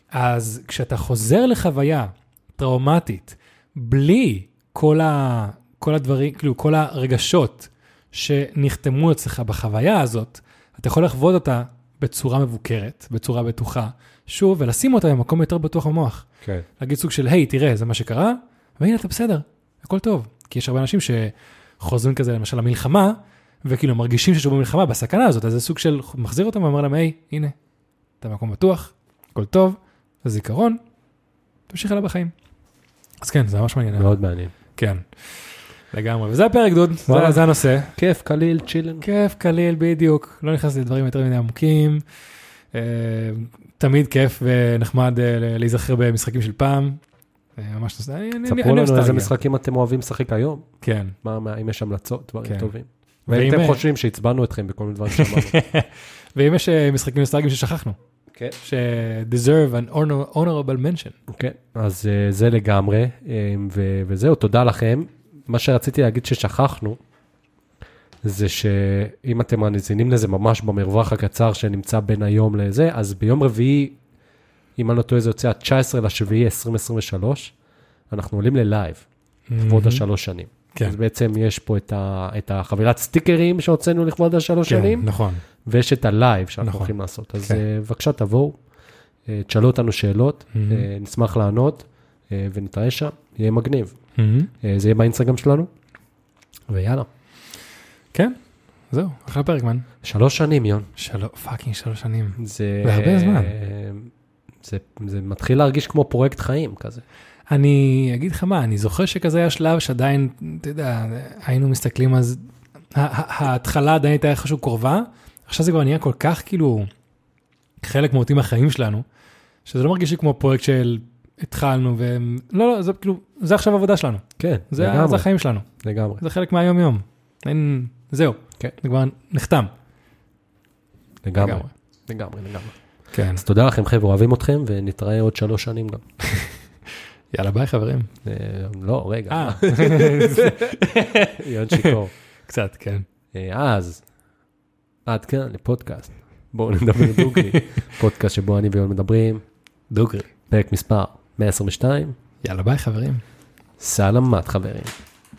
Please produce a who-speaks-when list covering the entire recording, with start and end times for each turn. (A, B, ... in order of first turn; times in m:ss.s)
0:00.1-0:16.3 A
0:16.8-0:27.5 A
0:28.2-0:30.8 A
0:31.7-0:32.3 A
0:33.2-0:34.2 A
0:34.0-0:34.5 B
0:34.8-0:35.0 A
0:35.9-0:37.9 A
0:37.1-0:39.0 B
0:39.0-0:42.0 A
0:42.7-0:47.0 A
0:47.6-0:49.3 A
0:48.5-0:50.6 B
0:50.8-0:51.1 A
0:51.2-0:55.5 B
0:52.4-0:52.7 A
0:53.3-0:53.8 A
0:55.1-0:58.0 A
0:58.6-1:01.2 A
1:01.3-1:07.0 B
1:08.2-1:14.0 B
1:14.8-1:17.5 B
1:18.1-1:19.0 B
1:19.5-1:20.0 A
1:19.6-1:25.1 B
1:24.7-1:25.4 A
1:25.6-1:28.6 B
1:26.6-1:26.9 A
1:29.3-1:34.0 B
1:30.5-1:30.9 A
1:34.2-1:34.5 A
1:34.6-1:35.7 B
1:36.7-1:37.1 B
1:38.9-1:39.8 A
1:40.0-1:40.9 B
1:41.0-1:43.6 A
1:42.4-1:44.1 B
1:44.6-1:47.0 B
1:47.5-1:52.4 A
1:53.0-1:56.9 A
1:57.8-1:59.0 A
1:59.7-2:05.7 A
2:04.4-2:05.3 B
2:05.8-2:06.2 B
2:06.2-2:09.7 A
2:11.2-2:12.7 B
2:11.4-2:11.7 A
2:13.1-2:13.4 A
2:13.4-2:16.0 B
2:17.3-2:18.1 A
2:18.2-2:22.1 B
2:19.3-2:22.0 A
2:22.5-2:23.1 A
2:23.3-2:24.0 B
2:25.1-2:29.4 B
2:27.0-2:27.9 A
2:29.9-2:30.3 A
2:30.5-2:32.1 B
2:32.4-2:33.2 A
2:33.8-2:34.9 B